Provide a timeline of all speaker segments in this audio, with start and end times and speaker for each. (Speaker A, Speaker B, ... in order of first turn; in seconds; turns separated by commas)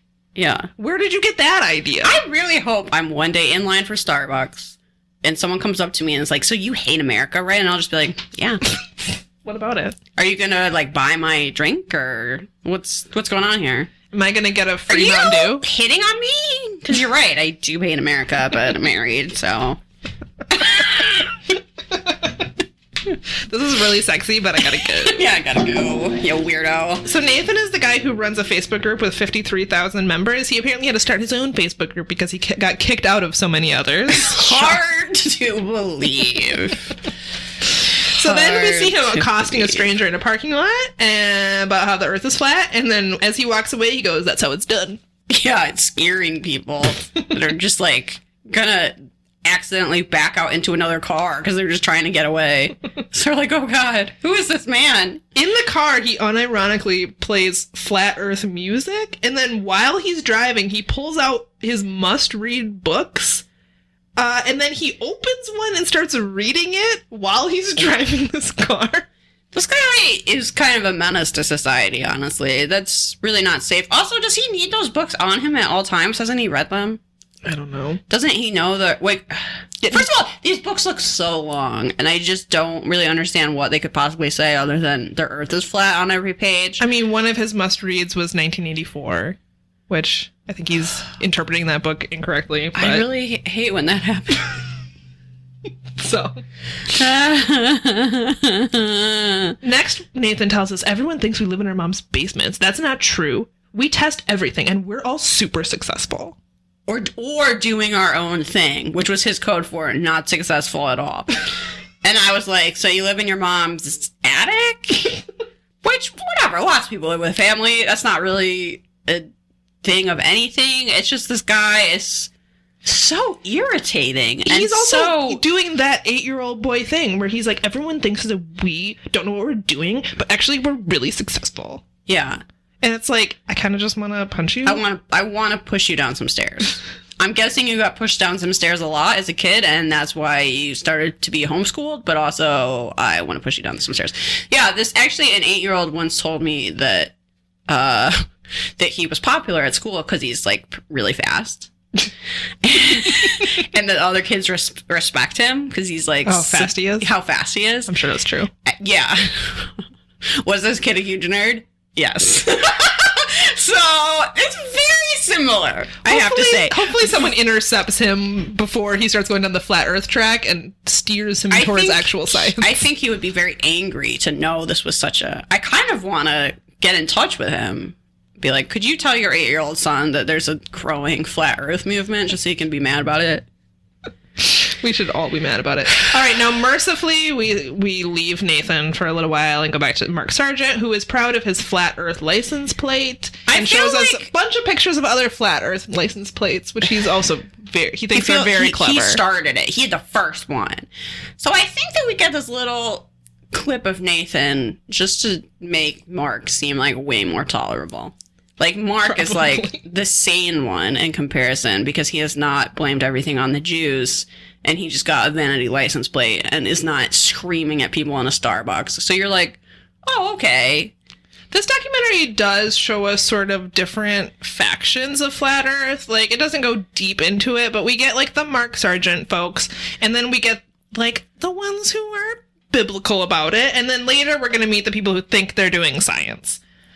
Speaker A: 0.4-0.7, Speaker B: 0.8-2.2, Speaker A: 2.0-8.6, Speaker B: 9.4-10.0, Speaker A: 10.2-13.9, Speaker B: 14.1-15.7, Speaker A: 14.9-19.8, Speaker A: 20.5-21.4, Speaker B: 23.5-25.2, Speaker A: 25.0-27.1, Speaker B: 27.1-34.8, Speaker A: 34.2-36.9, Speaker B: 38.1-45.0, Speaker A: 38.2-39.9, Speaker A: 45.3-55.2, Speaker B: 55.4-63.5, Speaker B: 64.2-69.1, Speaker A: 69.5-77.0, Speaker B: 77.5-78.0, Speaker A: 78.1-86.8, Speaker B: 79.8-80.1, Speaker B: 86.8-89.4, Speaker B: 89.9-93.1, Speaker A: 92.8-94.6, Speaker B: 96.0-96.4, Speaker A: 96.9-99.6, Speaker B: 99.6-106.4, Speaker A: 106.9-111.5, Speaker A: 112.0-115.2, Speaker A: 115.8-119.3, Speaker A: 119.8-122.3, Speaker A: 122.8-125.4, Speaker B: 124.5-131.9, Speaker A: 132.1-132.4, Speaker B: 132.8-134.8, Speaker A: 134.7-147.1, Speaker A: 147.7-151.7, Speaker A: 152.6-157.9, Speaker B: 156.2-157.1, Speaker B: 157.9-158.5, Speaker A: 158.7-159.7, Speaker A: 160.4-167.1, Speaker B: 166.1-172.8, Speaker A: 171.5-183.5, Speaker B: 184.4-199.2, Speaker A: 193.5-194.3, Speaker A: 198.1-200.9, Speaker A: 201.4-220.9, Speaker B: 209.1-209.8, Speaker B: 221.5-236.6